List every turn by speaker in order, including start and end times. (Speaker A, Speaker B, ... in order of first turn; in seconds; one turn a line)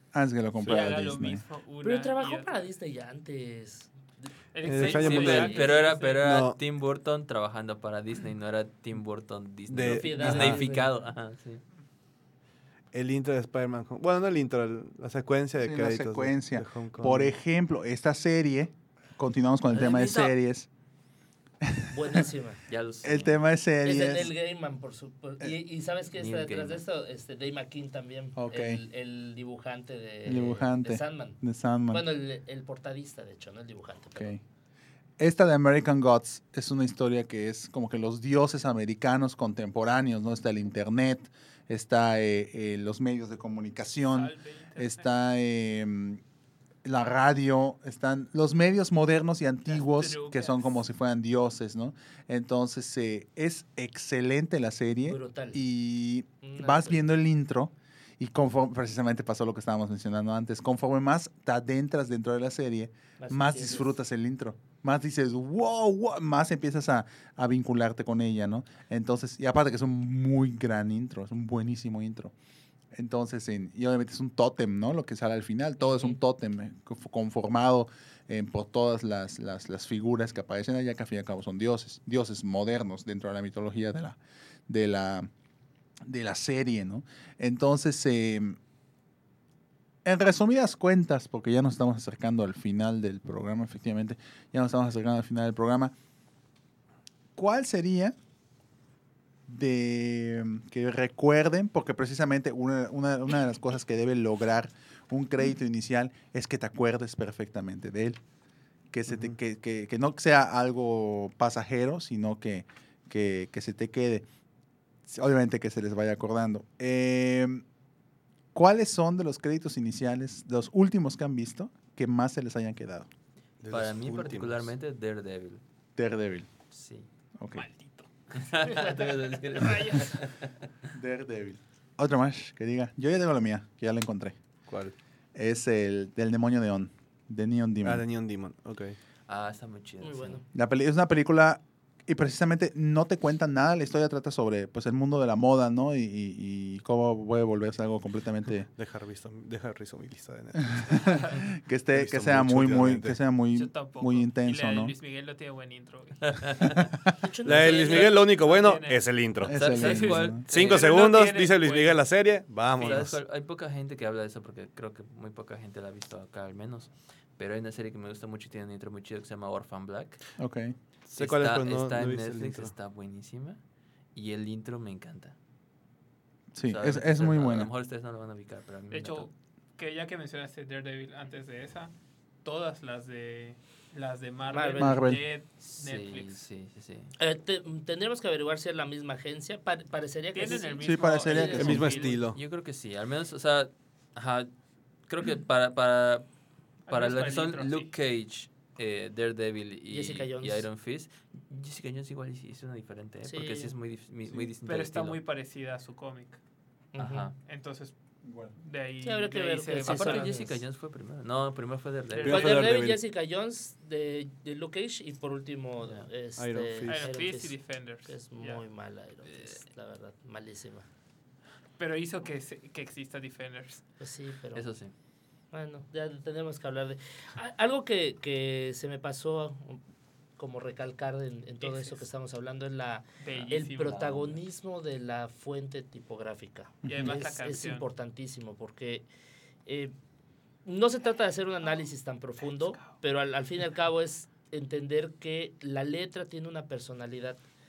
Speaker A: 0.1-1.4
Speaker B: 0.6-0.9
Speaker C: 0.7-2.6
Speaker D: 1.8-5.6
Speaker C: 4.5-6.3
Speaker B: 4.6-5.6
Speaker E: 5.1-11.6
Speaker B: 6.2-6.6
Speaker B: 9.7-10.6
Speaker D: 9.8-10.9
Speaker B: 12.9-17.3
Speaker A: 15.6-20.7
Speaker E: 19.8-20.1
Speaker A: 21.6-22.2
Speaker D: 21.9-22.6
Speaker E: 22.7-23.4
Speaker A: 23.0-24.3
Speaker D: 23.8-31.4
Speaker E: 26.2-26.8
Speaker A: 28.4-28.8
Speaker A: 30.2-32.0
Speaker D: 31.9-34.4
Speaker A: 34.1-34.4
Speaker A: 35.2-46.2
Speaker C: 44.1-45.0
Speaker A: 46.8-72.3
Speaker C: 49.7-50.6
Speaker D: 55.1-55.6
Speaker D: 56.4-57.0
Speaker D: 63.2-63.9
Speaker A: 72.9-85.3
Speaker D: 75.9-76.1
Speaker A: 86.0-88.6
Speaker A: 90.0-95.9
Speaker A: 97.3-98.1
Speaker A: 99.5-108.2
Speaker A: 108.9-114.3
Speaker A: 115.1-117.6
Speaker A: 118.5-123.1
Speaker B: 123.6-124.7
Speaker E: 123.7-125.6
Speaker A: 126.0-126.5
Speaker E: 126.7-127.1
Speaker A: 127.4-127.7
Speaker C: 127.5-130.2
Speaker E: 128.3-130.5
Speaker A: 130.9-134.4
Speaker E: 134.7-134.9
Speaker A: 135.3-138.0
Speaker B: 137.8-139.0
Speaker E: 139.3-140.4
Speaker D: 140.0-140.4
Speaker A: 140.5-148.7
Speaker B: 148.7-153.2
Speaker A: 150.7-154.9
Speaker C: 150.9-151.5
Speaker C: 153.5-156.8
Speaker E: 156.2-156.8
Speaker A: 156.8-157.1
Speaker D: 157.2-158.2
Speaker B: 157.4-163.2
Speaker C: 157.6-162.1
Speaker A: 159.4-160.4
Speaker E: 159.5-160.9
Speaker C: 162.8-163.1
Speaker E: 162.8-170.2
Speaker A: 170.4-170.7
Speaker E: 171.1-173.6
Speaker B: 171.2-172.7
Speaker E: 174.1-175.3
Speaker A: 176.5-177.7
Speaker E: 176.7-179.3
Speaker C: 178.9-186.4
Speaker D: 184.5-185.1
Speaker A: 184.8-185.2
Speaker E: 185.6-187.1
Speaker D: 187.2-191.7
Speaker C: 190.3-192.2
Speaker A: 190.8-192.0
Speaker B: 191.5-192.4
Speaker E: 191.8-194.5
Speaker E: 195.1-196.2
Speaker E: 196.8-205.2
Speaker C: 196.9-197.9
Speaker D: 199.9-200.7
Speaker D: 203.2-203.7
Speaker C: 204.6-206.4
Speaker D: 206.9-207.3
Speaker E: 207.0-207.3
Speaker C: 207.4-210.5
Speaker A: 208.2-208.5
Speaker D: 209.0-210.6
Speaker E: 209.8-212.6
Speaker C: 212.1-212.6
Speaker B: 212.2-213.0
Speaker D: 212.3-220.9
Speaker E: 215.8-216.1
Speaker B: 216.4-217.1
Speaker C: 216.9-218.6
Speaker C: 219.2-219.6
Speaker C: 221.8-223.8
Speaker D: 224.0-224.7
Speaker E: 224.6-224.9
Speaker D: 225.5-229.8
Speaker D: 230.4-239.1
Speaker C: 231.6-232.0
Speaker C: 233.2-234.4
Speaker E: 233.3-233.6
Speaker A: 236.8-237.1
Speaker C: 236.9-237.9
Speaker D: 239.7-239.9
Speaker D: 240.6-247.4
Speaker C: 242.5-242.9